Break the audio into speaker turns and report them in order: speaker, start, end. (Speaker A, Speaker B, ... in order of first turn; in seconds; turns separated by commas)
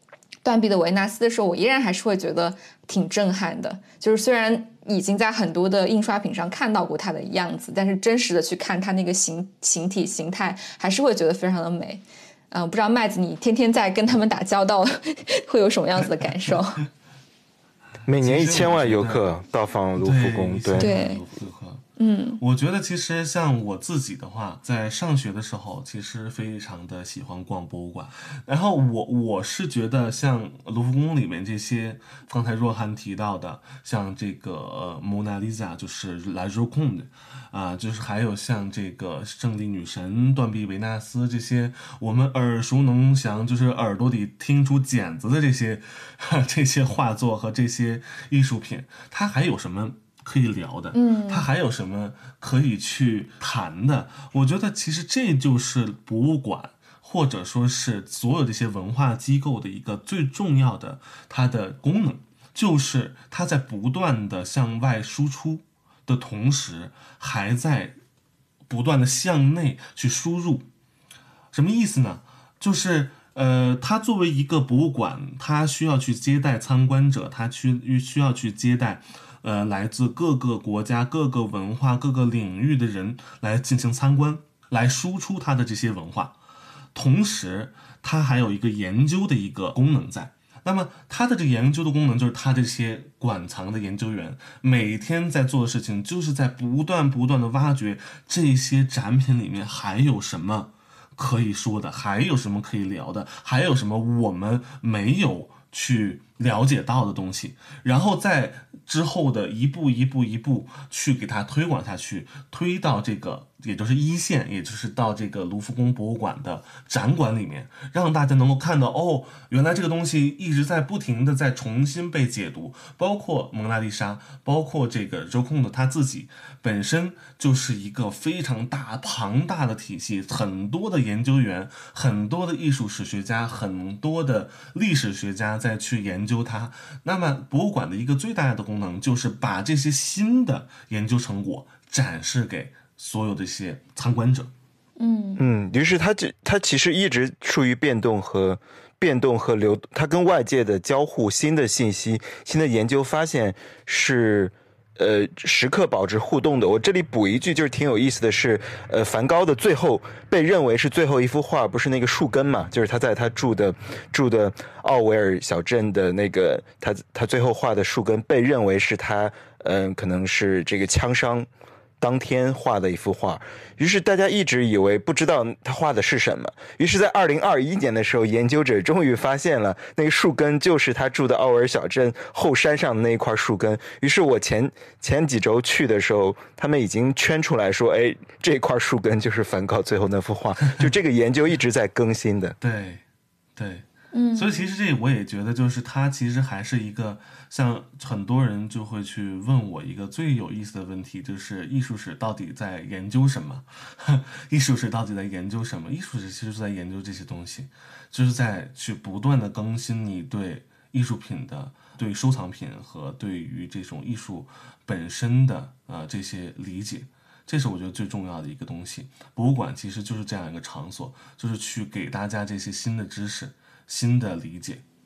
Speaker A: 0.4-16.8, Speaker B: 18.1-20.9, Speaker C: 18.2-19.3, Speaker C: 20.0-21.8, Speaker A: 20.8-21.2, Speaker A: 22.0-22.4, Speaker C: 22.4-67.9, Speaker A: 50.9-51.5, Speaker C: 68.7-70.7, Speaker C: 71.5-86.4, Speaker C: 86.9-144.5, Speaker A: 145.0-145.4, Speaker B: 145.4-171.5, Speaker B: 172.0-192.6, Speaker C: 192.6-193.0, Speaker C: 193.6-224.8, Speaker A: 194.1-194.7